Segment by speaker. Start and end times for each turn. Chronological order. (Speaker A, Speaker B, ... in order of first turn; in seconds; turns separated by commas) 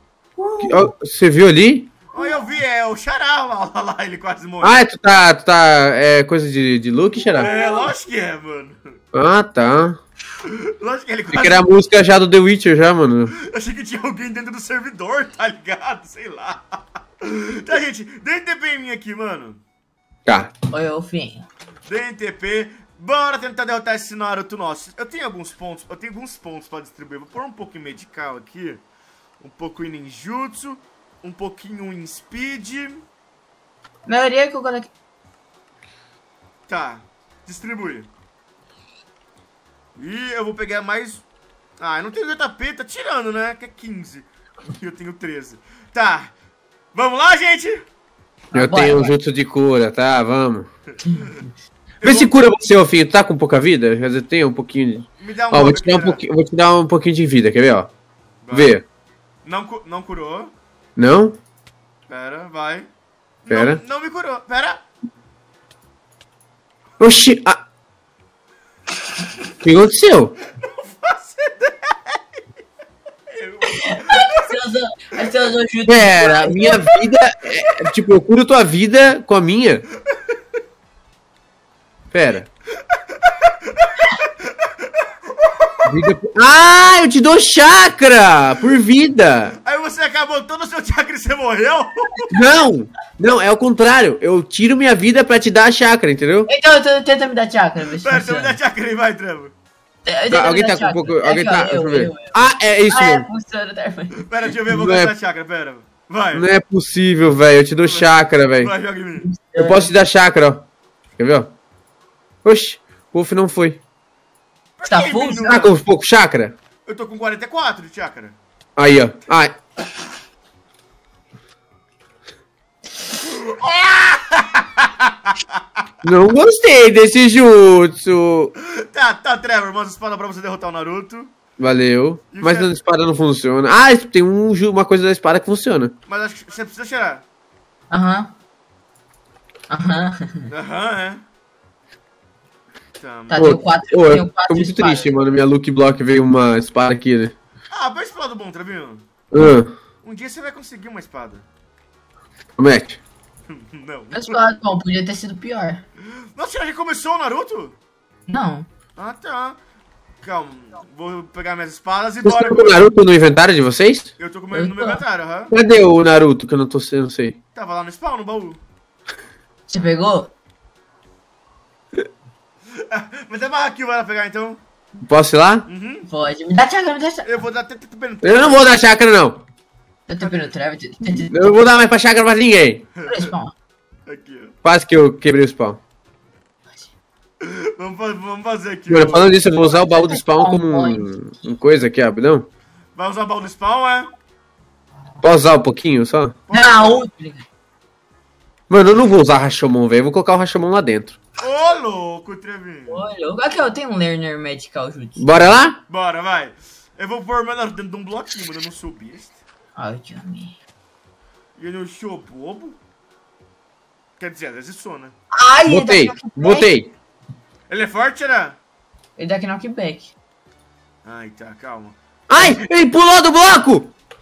Speaker A: 0.4-0.9, Speaker B: 0.6-1.9, Speaker C: 2.1-4.8, Speaker B: 4.6-7.5, Speaker A: 7.2-7.9, Speaker C: 7.4-8.8, Speaker B: 9.1-10.0, Speaker C: 10.4-11.7, Speaker B: 11.3-13.3, Speaker C: 13.3-19.6, Speaker B: 20.2-20.5, Speaker A: 20.7-21.5, Speaker C: 21.9-28.8, Speaker C: 29.4-33.0, Speaker A: 34.0-34.9, Speaker C: 36.7-38.1, Speaker C: 40.0-41.2, Speaker C: 41.8-46.3, Speaker C: 46.9-47.8, Speaker A: 48.5-49.1, Speaker B: 48.5-50.7, Speaker C: 52.0-52.4, Speaker B: 52.0-57.9, Speaker C: 55.2-56.2, Speaker C: 58.4-58.8, Speaker B: 58.5-58.8, Speaker C: 59.4-60.5, Speaker B: 61.0-61.4, Speaker C: 62.1-62.9, Speaker C: 63.4-64.8, Speaker B: 63.5-63.8, Speaker B: 67.0-67.6, Speaker B: 69.6-70.3, Speaker C: 70.5-72.2, Speaker C: 73.3-74.5, Speaker A: 73.7-77.0, Speaker B: 75.8-79.8, Speaker B: 82.1-82.5, Speaker C: 82.9-85.9, Speaker B: 85.8-89.5, Speaker C: 89.6-92.3, Speaker B: 92.3-96.5, Speaker A: 96.5-98.6, Speaker C: 98.0-99.5, Speaker A: 100.0-102.4, Speaker B: 100.3-103.2, Speaker A: 102.9-104.2, Speaker C: 104.2-106.5, Speaker B: 104.7-105.1, Speaker B: 106.3-108.7, Speaker C: 107.8-109.3, Speaker A: 109.2-109.9, Speaker B: 109.5-111.5, Speaker B: 112.4-113.8, Speaker C: 114.8-115.7, Speaker A: 114.9-115.6, Speaker B: 115.5-116.5, Speaker C: 116.8-118.4, Speaker B: 118.8-119.5, Speaker C: 123.2-125.8, Speaker B: 126.0-128.5, Speaker C: 128.6-131.3, Speaker B: 131.6-135.9, Speaker C: 132.3-132.7, Speaker C: 136.1-137.2, Speaker A: 137.9-138.3, Speaker A: 139.7-140.5, Speaker C: 140.5-141.2, Speaker C: 143.0-143.5, Speaker A: 143.3-145.1, Speaker B: 143.3-147.3, Speaker C: 147.7-149.1, Speaker B: 149.3-149.7, Speaker C: 150.0-151.4, Speaker B: 152.6-153.0, Speaker C: 153.5-154.4, Speaker A: 154.1-155.8, Speaker C: 156.3-157.8, Speaker A: 158.3-158.7, Speaker C: 158.9-159.6, Speaker C: 160.2-162.8, Speaker B: 162.2-164.1, Speaker C: 164.2-165.5, Speaker A: 164.5-165.0, Speaker B: 165.5-167.4, Speaker C: 167.5-168.6, Speaker A: 169.7-170.3, Speaker C: 172.8-174.6, Speaker B: 175.0-175.6, Speaker C: 175.7-176.1, Speaker A: 176.1-177.4, Speaker C: 177.2-178.8, Speaker B: 178.2-179.4, Speaker A: 180.1-181.6, Speaker C: 180.2-180.5, Speaker B: 181.3-182.8, Speaker C: 182.9-183.3, Speaker A: 183.1-183.5, Speaker C: 184.1-184.5, Speaker B: 184.6-185.8, Speaker C: 187.4-189.4, Speaker B: 188.9-192.5, Speaker A: 189.6-191.1, Speaker C: 192.9-194.1, Speaker B: 195.2-196.3, Speaker C: 196.5-197.0, Speaker A: 196.5-197.4, Speaker B: 198.7-201.2, Speaker C: 201.4-203.1, Speaker A: 202.9-205.5, Speaker B: 205.2-205.8, Speaker C: 205.9-209.4, Speaker A: 209.8-210.6, Speaker C: 211.6-212.8, Speaker C: 214.2-215.1, Speaker A: 215.3-216.7, Speaker B: 215.7-216.9, Speaker C: 217.7-218.6, Speaker A: 219.2-220.1, Speaker C: 221.0-222.6, Speaker B: 222.3-223.9